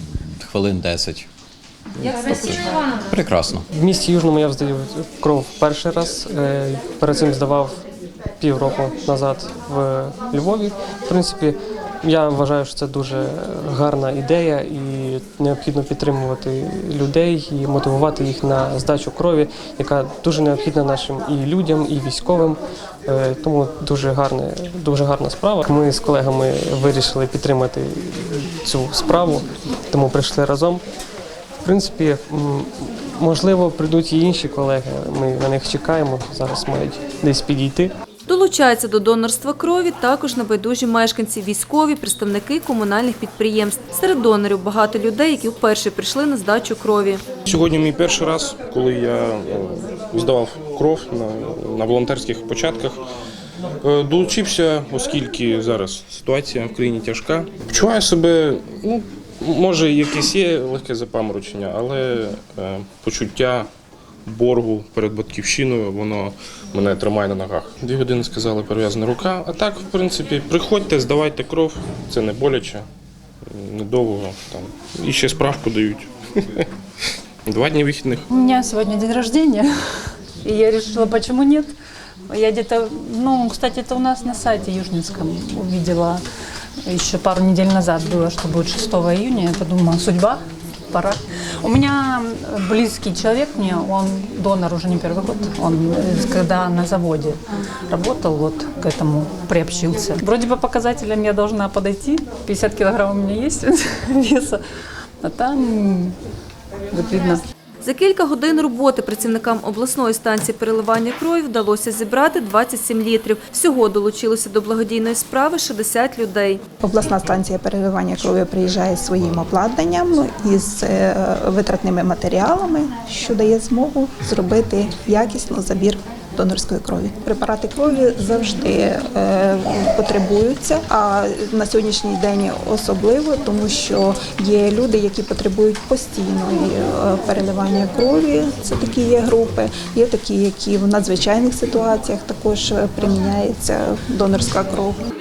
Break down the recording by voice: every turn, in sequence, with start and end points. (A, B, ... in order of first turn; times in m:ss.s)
0:00.4-0:01.3 A
0:02.0-0:03.6 A
0:03.7-0:07.7 B
0:08.4-0:30.8 B
0:31.6-0:37.9 B
0:38.3-0:47.2 C
0:47.4-0:53.0 D
0:53.8-1:03.7 D
1:04.2-1:12.8 D
1:13.5-1:16.7 D
1:17.4-1:18.2 D
1:18.3-1:21.7 E
1:22.3-1:26.2 E
1:26.9-1:30.4 E
1:30.9-1:44.6 E
1:45.2-1:46.2 E
1:46.9-1:47.4 E
1:47.8-1:56.6 C
1:56.8-2:25.0 F